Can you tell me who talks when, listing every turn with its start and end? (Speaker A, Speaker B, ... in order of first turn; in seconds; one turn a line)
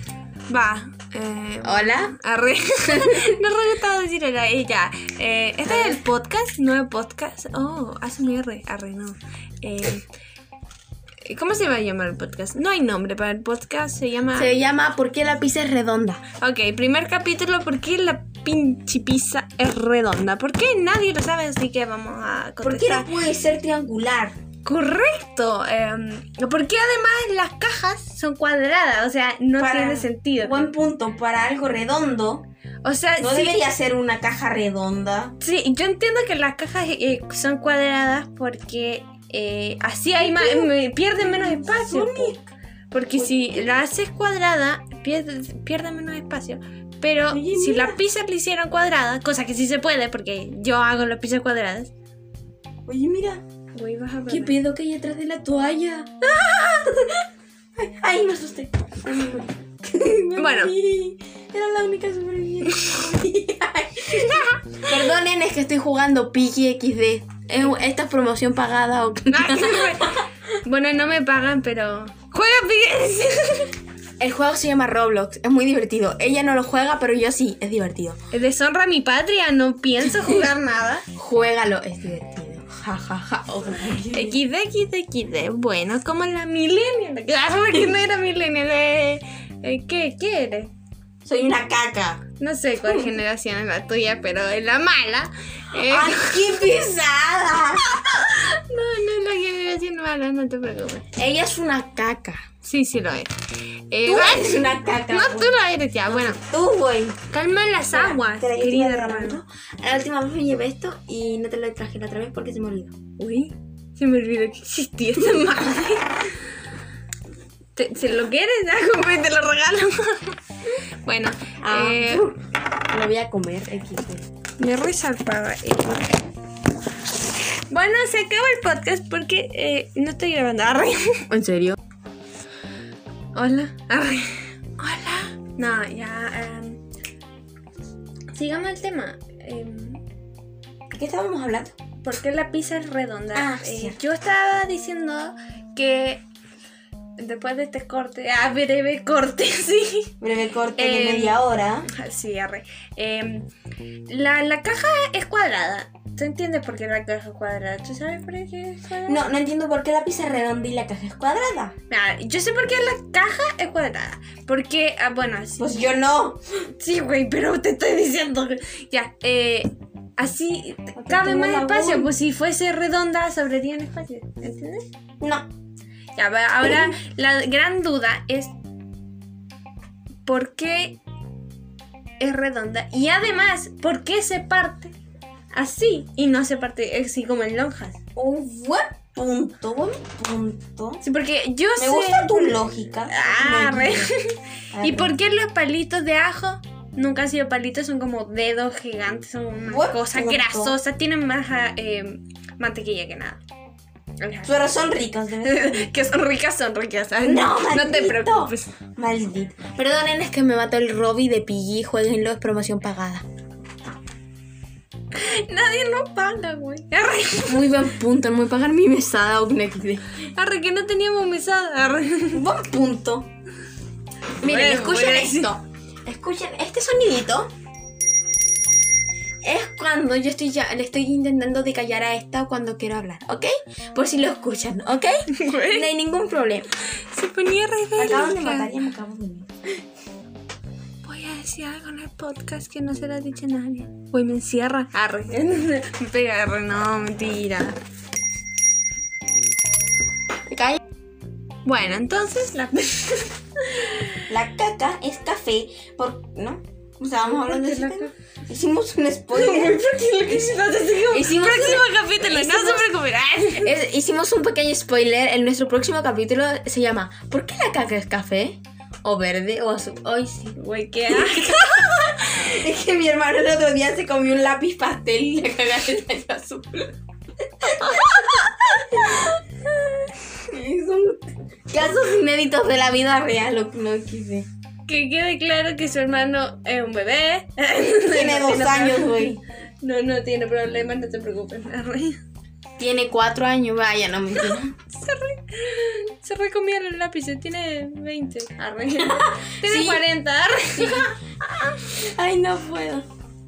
Speaker A: 0.5-10.1
Speaker B: 1.6-2.1
Speaker B: 2.9-3.2
Speaker B: 5.6-6.0
Speaker A: 11.2-14.5
Speaker B: 14.3-16.2
Speaker A: 16.4-23.1
Speaker B: 22.6-24.4
Speaker A: 24.6-30.7
Speaker B: 29.6-32.5
Speaker A: 32.8-33.6
Speaker B: 33.2-35.4
Speaker A: 35.4-42.4
Speaker B: 40.2-42.4
Speaker A: 42.9-51.9
Speaker B: 43.1-43.8
Speaker B: 47.3-48.0
Speaker B: 52.9-53.4
Speaker A: 53.7-54.6
Speaker B: 54.3-56.1
Speaker A: 56.4-56.7
Speaker B: 56.7-57.2
Speaker B: 57.8-70.2
Speaker A: 60.4-60.7
Speaker A: 64.2-64.9
Speaker A: 69.3-73.7
Speaker B: 74.2-78.2
Speaker A: 78.3-81.0
Speaker B: 81.1-84.4
Speaker A: 84.1-90.7
Speaker B: 91.2-92.2
Speaker A: 92.4-96.7
Speaker B: 95.8-98.0
Speaker A: 97.8-101.1
Speaker B: 101.2-102.4
Speaker A: 102.6-103.3
Speaker A: 103.9-106.4
Speaker B: 104.0-105.5
Speaker B: 106.1-107.2
Speaker A: 107.3-109.4
Speaker B: 107.9-112.9
Speaker A: 113.2-116.4
Speaker B: 115.2-115.7
Speaker A: 117.8-122.3
Speaker B: 121.6-124.3
Speaker A: 124.6-126.2
Speaker A: 127.7-131.3
Speaker B: 131.3-131.8
Speaker A: 133.3-136.8
Speaker A: 138.3-140.0
Speaker B: 140.9-141.7
Speaker A: 142.0-146.2
Speaker B: 143.3-144.0
Speaker A: 147.2-150.1
Speaker B: 150.2-151.9
Speaker A: 150.8-153.5
Speaker A: 154.1-159.3
Speaker B: 159.0-161.8
Speaker A: 161.9-165.7
Speaker B: 165.6-166.4
Speaker A: 166.8-174.8
Speaker B: 170.9-172.1
Speaker B: 175.2-175.5
Speaker A: 176.2-178.5
Speaker B: 176.6-176.9
Speaker A: 180.2-181.0
Speaker A: 182.2-184.9
Speaker A: 185.5-188.0
Speaker B: 188.2-191.0
Speaker A: 191.0-203.4
Speaker B: 191.8-194.2
Speaker B: 194.7-195.2
Speaker B: 199.7-200.8
Speaker A: 204.2-204.6
Speaker B: 204.4-205.9
Speaker A: 205.4-208.7
Speaker B: 207.2-213.2
Speaker A: 215.1-217.8
Speaker B: 217.4-220.0
Speaker A: 220.3-222.4
Speaker B: 222.3-223.3
Speaker B: 224.4-227.5
Speaker A: 224.4-225.5
Speaker B: 229.4-236.7
Speaker A: 235.3-235.8
Speaker A: 236.9-238.7
Speaker B: 238.0-239.5
Speaker A: 241.0-247.8
Speaker B: 250.5-250.8
Speaker A: 251.7-254.2
Speaker B: 254.3-262.9
Speaker A: 257.2-258.1
Speaker A: 259.3-263.8
Speaker B: 263.5-270.6
Speaker A: 270.6-272.6
Speaker B: 271.1-277.0
Speaker B: 277.6-279.4
Speaker A: 277.6-279.4
Speaker B: 280.4-284.5
Speaker A: 284.9-292.2
Speaker B: 288.1-289.4
Speaker B: 292.8-294.7
Speaker A: 294.4-301.1
Speaker B: 299.0-300.0
Speaker B: 300.8-303.1